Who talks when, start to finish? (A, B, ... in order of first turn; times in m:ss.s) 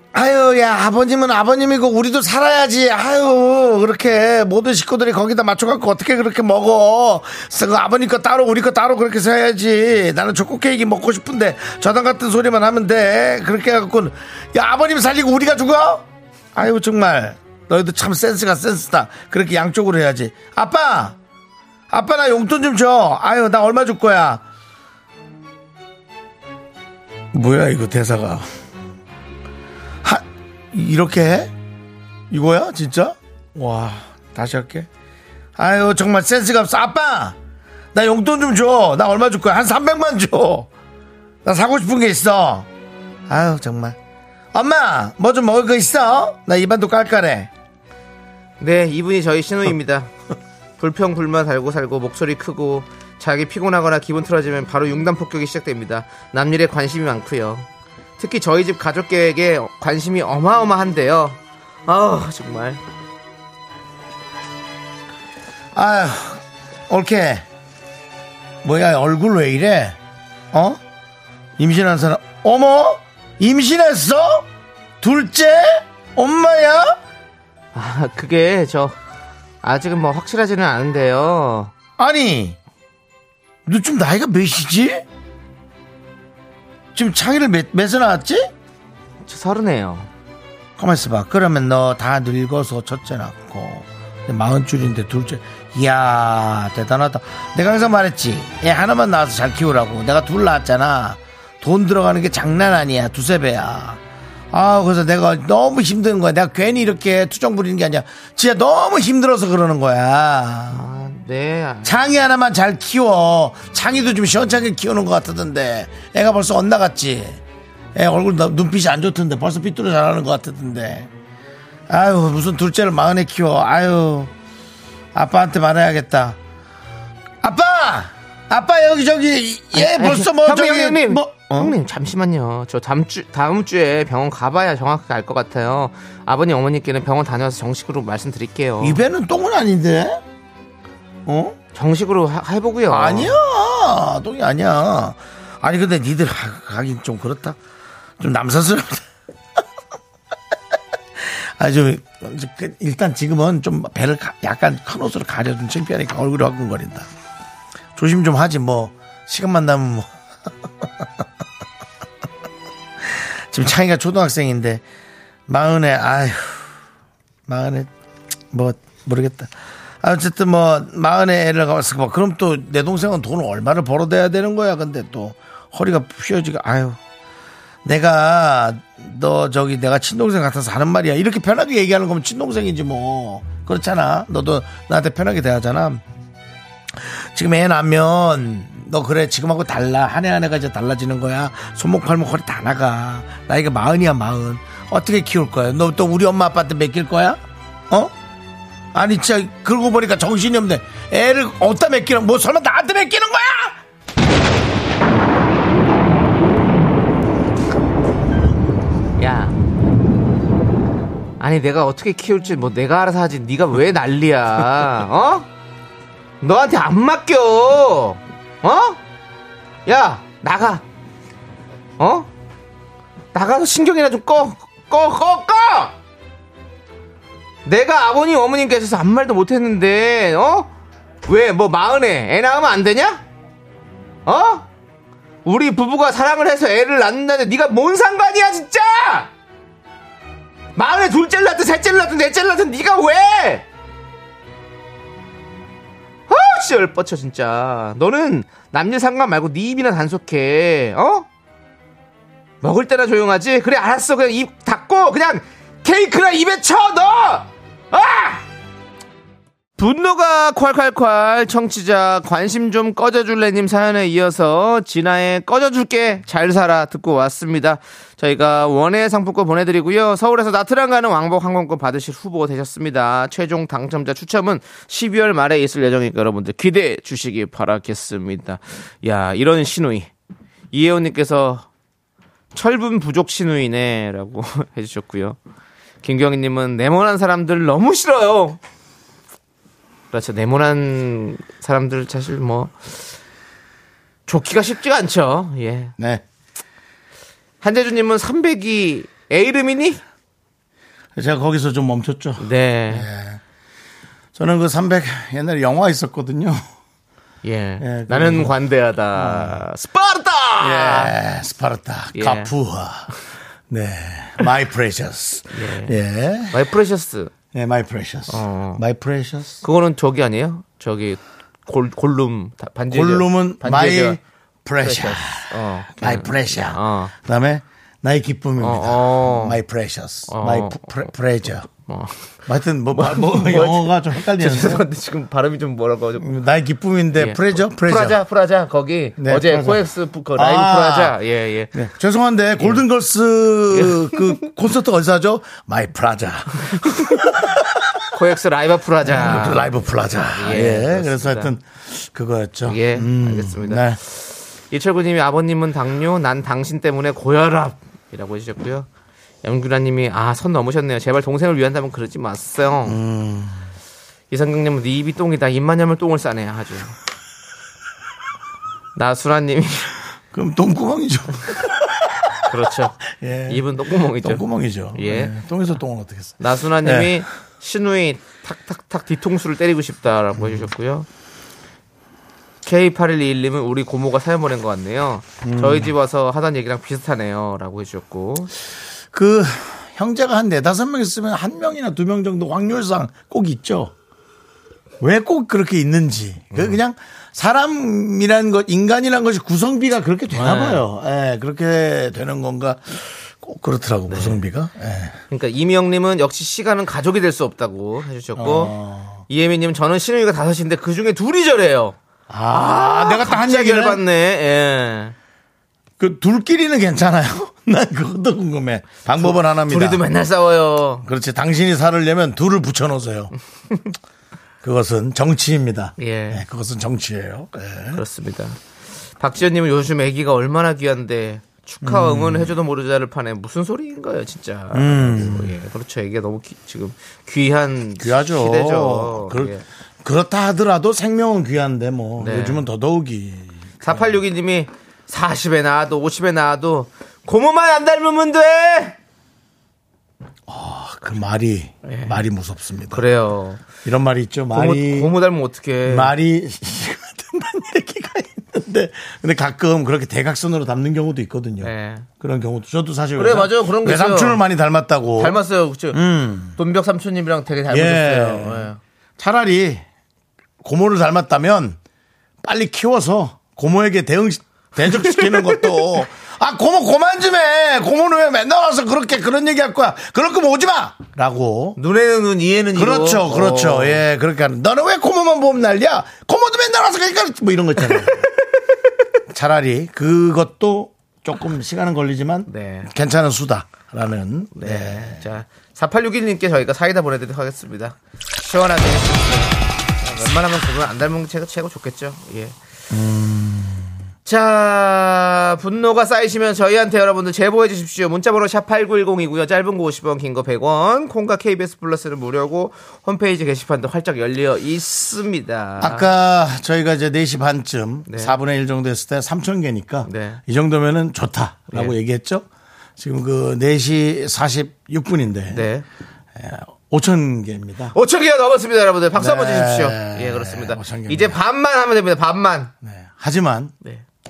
0:00.1-0:21.2 A
0:21.9-0:24.4 A
0:27.3-0:28.5 A
0:30.0-0:31.5 A
0:32.3-0:34.9 A
0:35.6-0:37.4 A
0:37.9-0:40.7 A
0:41.4-0:42.7 A
0:43.3-0:44.0 A
0:44.5-0:47.5 A
0:48.6-0:50.1 B
0:50.8-0:57.7 B
0:58.2-1:02.8 B
1:05.7-1:07.4 A
1:08.6-1:10.0 A
1:10.5-1:10.8 A
1:11.6-1:14.5 A
1:15.0-1:17.0 A
1:17.7-1:19.0 B
1:19.6-1:21.7 B
1:22.0-1:22.6 A
1:23.6-1:25.0 A
1:26.9-1:28.5 A
1:29.2-1:30.1 B
1:30.8-1:44.0 A
1:44.5-1:50.8 A
1:50.7-1:52.0 B
1:51.8-1:57.4 A
1:57.9-2:01.1 A
2:01.9-2:04.3 A
2:05.1-2:06.4 A
2:07.4-2:11.7 A
2:09.7-2:19.0 B
2:18.8-2:20.2 A
2:21.3-2:21.6 A
2:21.7-2:23.4 B
2:22.9-2:27.6 A
2:28.2-2:29.0 A
2:31.2-2:37.1 A
2:38.0-2:40.1 A
2:40.8-2:41.2 A
2:43.0-2:44.8 A
2:45.5-2:46.7 A
2:47.5-2:47.9 A
2:48.5-2:57.0 A
2:57.8-3:06.0 A
3:06.9-3:17.4 A
3:18.9-3:23.8 A
3:29.2-3:29.6 B
3:31.4-3:35.5 B
3:36.4-3:39.0 B
3:39.9-3:40.8 B
3:42.0-3:42.3 B
3:43.3-3:45.9 B
3:47.6-3:50.7 B
3:51.3-3:53.2 B
3:54.3-3:54.6 B
3:55.4-3:59.3 B
4:00.8-4:03.6 B
4:06.3-4:11.3 B
4:12.6-4:18.4 B
4:19.8-4:40.1 B
4:40.7-4:41.7 B
4:42.5-4:45.4 B
4:46.0-4:48.6 B
4:50.1-4:53.0 B
4:54.3-4:55.9 B
4:56.0-4:56.2 A
4:57.6-5:00.0 B
5:01.2-5:03.4 A
5:02.4-5:03.1 B
5:04.4-5:06.6 A
5:07.4-5:11.1 B
5:07.8-5:08.6 A
5:09.2-5:09.6 A
5:10.6-5:13.1 A
5:12.1-5:12.5 B
5:13.7-5:16.6 A
5:15.5-5:15.9 B
5:16.5-5:17.3 B
5:17.5-5:19.6 A
5:18.3-5:18.8 B
5:19.6-5:24.2 B
5:22.9-5:31.7 A
5:24.8-5:27.1 B
5:28.6-5:29.6 B
5:30.3-5:31.1 B
5:31.7-5:32.3 B
5:32.4-5:34.8 A
5:32.9-5:36.3 B
5:36.2-5:38.2 A
5:37.1-5:41.8 B
5:39.2-5:39.8 A
5:40.4-5:41.2 A
5:41.7-5:48.0 A
5:43.7-5:44.4 B
5:46.7-5:47.4 B
5:48.1-5:51.5 B
5:49.0-5:54.0 A
5:52.6-5:58.9 B
5:59.4-6:03.0 B
6:02.8-6:03.7 A
6:04.3-6:06.9 B
6:09.0-6:09.9 B
6:10.3-6:12.4 A
6:12.4-6:15.3 B
6:13.1-6:13.6 A
6:14.2-6:17.2 A
6:16.4-6:21.1 B
6:20.4-6:20.7 A
6:22.6-6:28.5 B
6:25.4-6:25.9 A
6:29.1-6:33.9 A
6:35.0-6:45.2 A
6:40.3-6:40.8 B
6:44.1-6:44.4 B
6:45.3-6:48.7 B
6:48.4-6:49.2 A
6:49.3-6:52.0 B
6:52.3-6:54.0 A
6:52.5-6:55.1 B
6:56.0-7:00.0 A
6:59.1-7:01.0 B
7:01.0-7:03.3 A
7:04.6-7:08.0 A
7:06.0-7:06.4 B
7:07.9-7:08.6 B
7:09.2-7:19.6 B
7:11.8-7:12.6 A
7:14.7-7:15.6 A
7:18.0-7:24.2 A
7:22.2-7:22.6 B
7:23.8-7:29.0 B
7:30.5-7:33.0 A
7:31.8-7:32.2 B
7:32.9-7:33.6 B
7:33.8-7:35.1 A
7:34.5-7:36.1 B
7:35.9-7:45.4 A
7:41.6-7:42.1 B
7:43.2-7:44.4 B
7:45.2-7:48.8 B
7:45.9-7:46.6 A
7:47.7-7:49.8 A
7:50.6-7:51.8 A
7:52.4-8:01.8 A
7:54.9-7:55.8 B
8:01.8-8:04.0 B
8:02.7-8:08.3 A
8:09.3-8:15.2 A
8:12.5-8:12.9 B
8:14.6-8:22.6 B
8:22.9-8:23.9 A
8:24.2-8:36.1 B
8:35.8-8:42.4 A
8:38.1-8:38.4 B
8:40.1-8:40.4 B
8:43.0-8:45.7 A
8:45.5-8:45.8 B
8:46.4-8:48.0 A
8:47.9-8:52.7 B
8:49.1-8:51.4 A
8:52.8-8:53.7 A